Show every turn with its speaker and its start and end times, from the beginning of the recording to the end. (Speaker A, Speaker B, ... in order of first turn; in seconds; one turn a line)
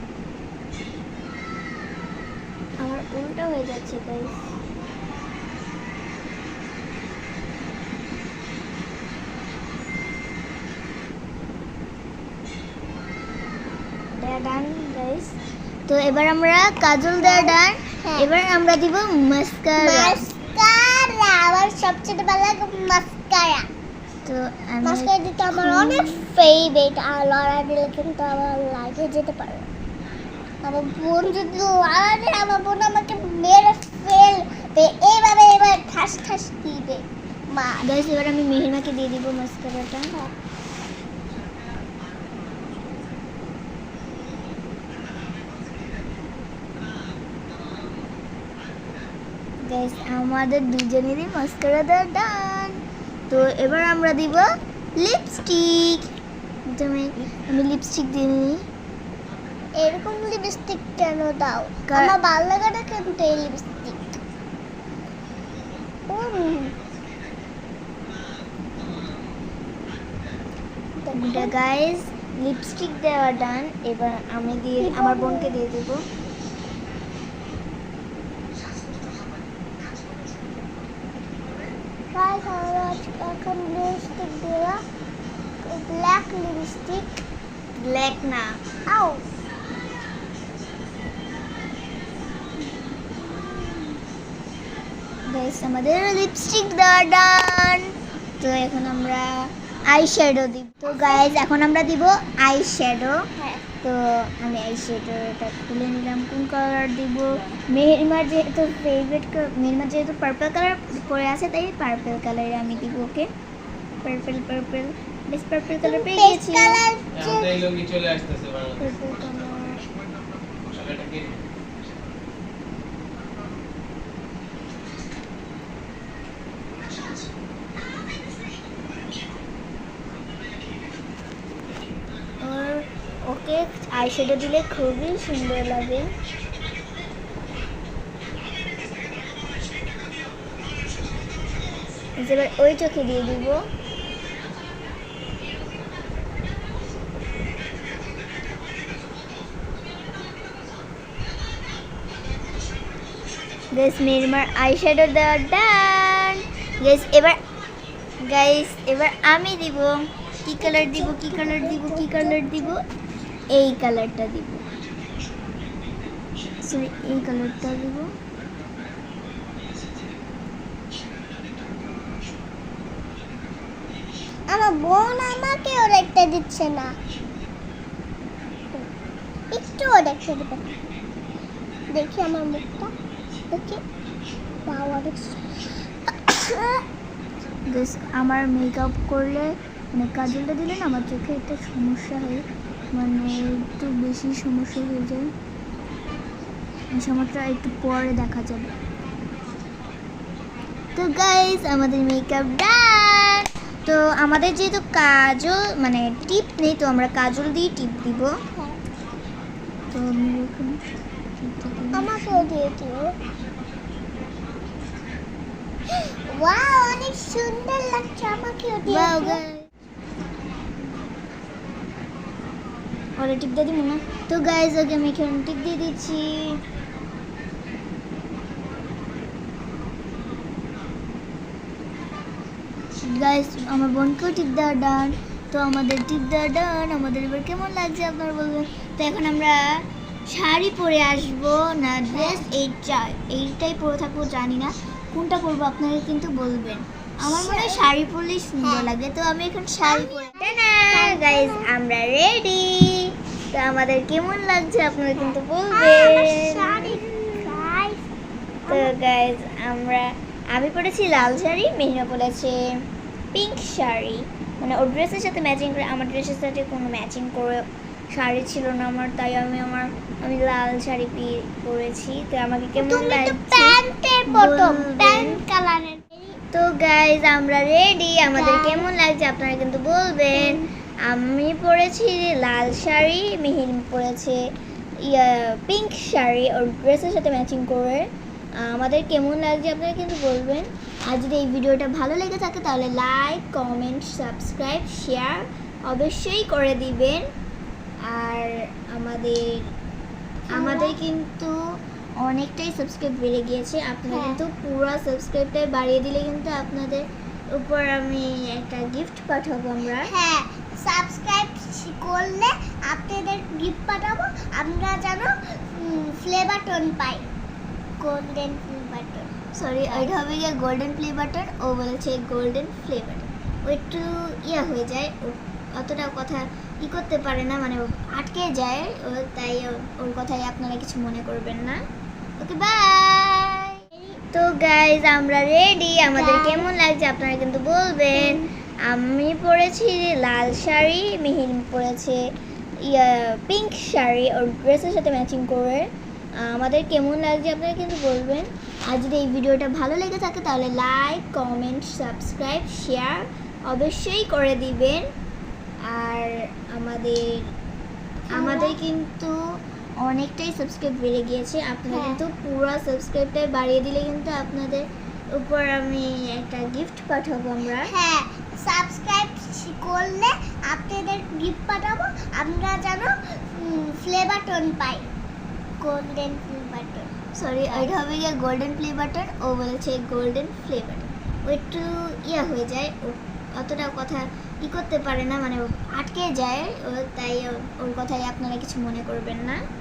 Speaker A: 2.8-4.5
Speaker A: 14.2-20.2
Speaker B: 17.2-18.3
Speaker B: 19.8-23.7
Speaker A: 24.3-26.3
Speaker B: 24.8-29.7
Speaker B: 30.6-37.9
Speaker A: 37.8-40.1
Speaker A: 49.6-56.1
Speaker A: 56.7-58.6
Speaker B: 59.8-64.2
Speaker A: 61.9-62.1
Speaker B: 66.1-66.8
Speaker B: 71.0-71.5
Speaker A: 71.1-76.1
Speaker B: 74.8-75.6
Speaker B: 82.1-84.8
Speaker B: 85.6-87.2
Speaker A: 87.8-88.6
Speaker B: 88.9-89.2
Speaker B: 92.8-93.9
Speaker A: 95.3-103.3
Speaker B: 103.4-103.6
Speaker A: 103.8-113.3
Speaker A: 114.0-116.8
Speaker B: 115.8-117.5
Speaker C: 117.2-118.9
Speaker A: 118.8-119.8
Speaker C: 120.7-121.4
Speaker A: 132.4-136.1
Speaker A: 142.2-143.7
Speaker A: 153.7-157.4
Speaker A: 158.2-162.8
Speaker B: 160.6-162.8
Speaker A: 163.5-164.6
Speaker A: 166.6-168.1
Speaker B: 174.5-176.9
Speaker B: 179.5-180.8
Speaker B: 181.9-182.9
Speaker B: 183.5-183.8
Speaker B: 184.7-186.8
Speaker A: 187.7-195.3
Speaker A: 196.9-198.8
Speaker A: 200.9-208.3
Speaker A: 209.9-210.8
Speaker A: 211.4-212.5
Speaker B: 211.9-213.1
Speaker B: 216.3-219.4
Speaker A: 218.9-219.7
Speaker A: 223.2-226.6
Speaker A: 233.0-257.7
Speaker B: 242.1-242.5
Speaker B: 247.2-247.9
Speaker B: 248.6-248.9
Speaker B: 249.8-251.7
Speaker B: 255.2-258.0
Speaker B: 258.7-258.9
Speaker A: 258.7-262.6
Speaker A: 263.3-275.4
Speaker B: 272.8-276.4
Speaker A: 276.5-284.4
Speaker B: 278.3-278.9
Speaker B: 280.3-280.7
Speaker A: 285.0-297.3
Speaker A: 298.1-299.7
Speaker B: 300.5-301.0
Speaker A: 300.5-301.6
Speaker A: 302.2-310.1
Speaker B: 304.1-304.4
Speaker B: 310.0-317.2
Speaker B: 318.0-320.1
Speaker A: 319.5-331.8
Speaker A: 332.4-333.8
Speaker A: 334.3-342.2
Speaker B: 336.1-336.7
Speaker B: 338.1-338.5
Speaker A: 342.9-355.1
Speaker A: 355.9-357.4
Speaker A: 358.3-359.4
Speaker B: 358.3-358.8
Speaker A: 360.0-367.9
Speaker B: 361.9-362.2
Speaker B: 367.8-375.1
Speaker B: 375.8-377.1
Speaker A: 377.3-389.6
Speaker B: 377.7-378.0